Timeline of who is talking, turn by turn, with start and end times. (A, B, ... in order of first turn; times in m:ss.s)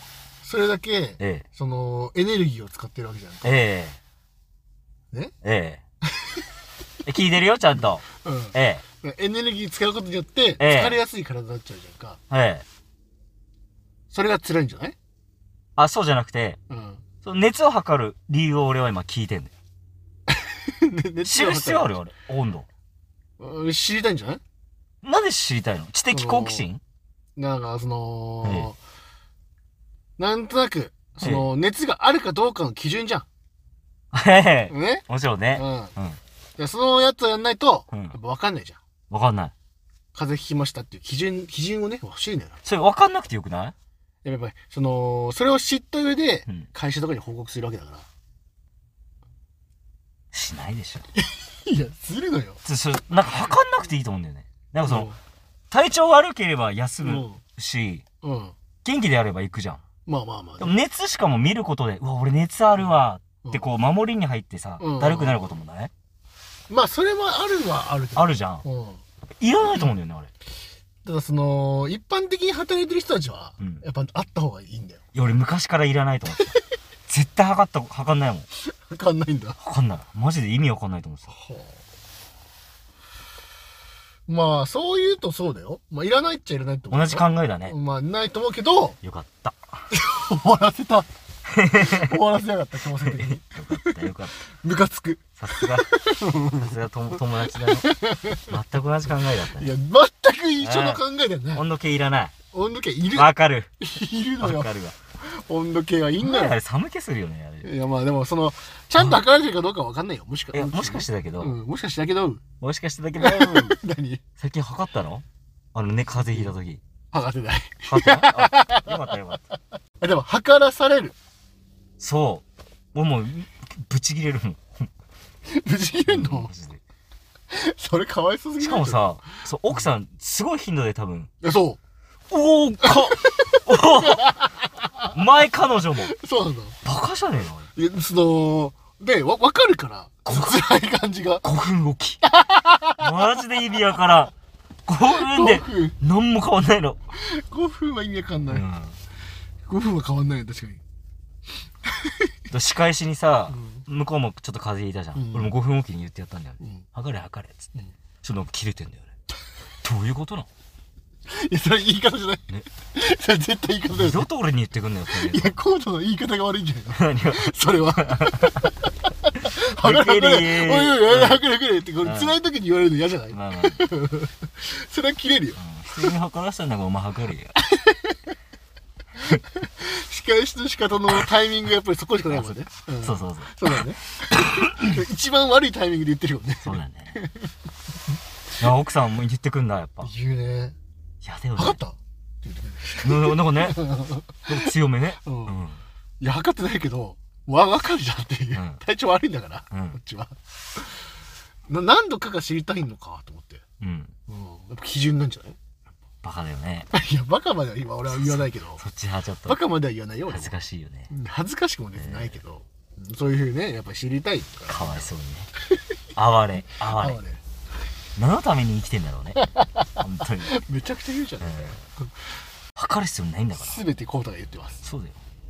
0:00.4-0:03.6 A
0:01.2-0:01.4 B
0:03.4-0:04.0 B
0:05.4-0:05.8 B
0:06.2-0:06.4 A
0:07.0-0:08.8 B
0:08.1-0:12.2 A
0:10.6-0:11.0 B
0:12.3-0:12.6 B
0:14.1-0:15.0 A
0:15.8-0:16.6 B
0:16.7-0:17.0 A
0:17.2-0:19.5 B
0:20.3-0:22.0 A
0:21.2-0:22.7 B
0:23.4-0:24.4 A
0:25.0-0:26.8 B
0:26.1-0:26.7 A
0:27.4-0:28.8 A
0:28.4-0:28.7 B
0:30.2-0:33.2 A
0:31.2-0:31.5 B
0:34.1-0:36.2 B
0:34.7-0:35.9 A
0:36.6-0:38.8 A
0:37.9-0:38.2 B
0:39.1-0:39.5 B
0:40.1-0:42.6 A
0:42.6-0:43.7 B
0:44.2-0:48.1 A
0:50.3-0:51.1 B
0:51.2-0:52.6 A
0:52.6-0:55.1 B
0:54.8-0:55.2 A
0:55.7-0:58.0 B
0:57.0-0:57.4 A
0:58.2-0:58.5 A
0:58.8-0:59.8 B
1:00.0-1:00.8 A
1:00.6-1:05.9 B
1:04.8-1:05.5 A
1:06.7-1:09.0 A
1:08.1-1:08.6 B
1:09.4-1:10.3 B
1:11.0-1:15.0 A
1:15.1-1:18.5 B
1:18.6-1:19.6 A
1:19.6-1:21.3 B
1:21.3-1:21.8 A
1:24.3-1:29.0 A
1:26.9-1:27.7 B
1:29.0-1:29.6 B
1:29.9-1:31.1 A
1:31.5-1:32.0 B
1:31.7-1:36.7 A
1:33.0-1:34.4 B
1:35.4-1:39.8 B
1:37.5-1:38.6 A
1:39.5-1:41.6 A
1:40.6-1:41.0 B
1:41.5-1:42.3 B
1:42.5-1:46.6 A
1:43.1-1:43.7 B
1:44.4-1:45.0 B
1:46.2-1:47.7 B
1:47.6-1:52.4 A
1:50.5-1:51.6 B
1:52.6-1:53.8 B
1:53.2-1:54.2 A
1:54.4-1:56.8 B
1:57.1-1:59.1 A
1:57.9-1:59.4 B
2:00.0-2:01.2 A
2:02.0-2:04.9 B
2:05.4-2:06.5 A
2:06.1-2:06.8 B
2:07.5-2:09.2 A
2:08.6-2:11.3 B
2:11.4-2:11.8 A
2:12.3-2:14.3 B
2:12.9-2:15.0 A
2:15.1-2:16.1 B
2:16.0-2:16.8 A
2:16.8-2:17.7 B
2:17.7-2:21.4 A
2:20.2-2:20.6 B
2:21.4-2:22.2 B
2:22.2-2:23.3 A
2:23.0-2:24.3 B
2:24.8-2:27.0 B
2:25.0-2:26.0 A
2:27.1-2:28.6 A
2:28.5-2:29.0 B
2:29.7-2:30.8 A
2:31.9-2:32.2 A
2:32.5-2:37.7 B
2:33.5-2:33.8 A
2:35.1-2:35.5 A
2:36.6-2:36.8 A
2:38.2-2:39.1 B
2:39.8-2:40.5 B
2:41.3-2:44.2 A
2:43.9-2:45.6 B
2:45.1-2:48.8 A
2:46.9-2:48.5 B
2:49.4-2:55.6 A
2:49.5-2:51.4 B
2:52.0-2:52.4 B
2:53.3-2:53.8 B
2:55.6-2:57.5 B
2:57.6-2:58.2 A
2:59.2-3:07.5 A
3:02.3-3:03.7 B
3:06.6-3:07.2 B
3:08.6-3:10.1 B
3:10.0-3:10.8 A
3:11.2-3:11.8 B
3:11.6-3:14.7 A
3:13.0-3:13.9 B
3:14.4-3:15.8 B
3:15.2-3:15.6 A
3:16.2-3:21.0 A
3:18.5-3:18.8 B
3:19.7-3:20.0 B
3:21.7-3:23.6 A
3:23.8-3:24.1 B
3:24.3-3:25.6 A
3:26.2-3:26.9 B
3:26.9-3:28.8 A
3:28.1-3:29.6 B
3:29.4-3:30.5 A
3:30.3-3:31.1 B
3:31.1-3:35.1 A
3:32.0-3:32.4 B
3:34.7-3:35.5 B
3:36.1-3:37.2 B
3:36.8-3:37.4 A
3:38.2-3:40.6 B
3:40.4-3:42.2 A
3:41.4-3:41.8 B
3:42.8-3:43.8 B
3:43.6-3:44.8 A
3:44.8-3:45.2 B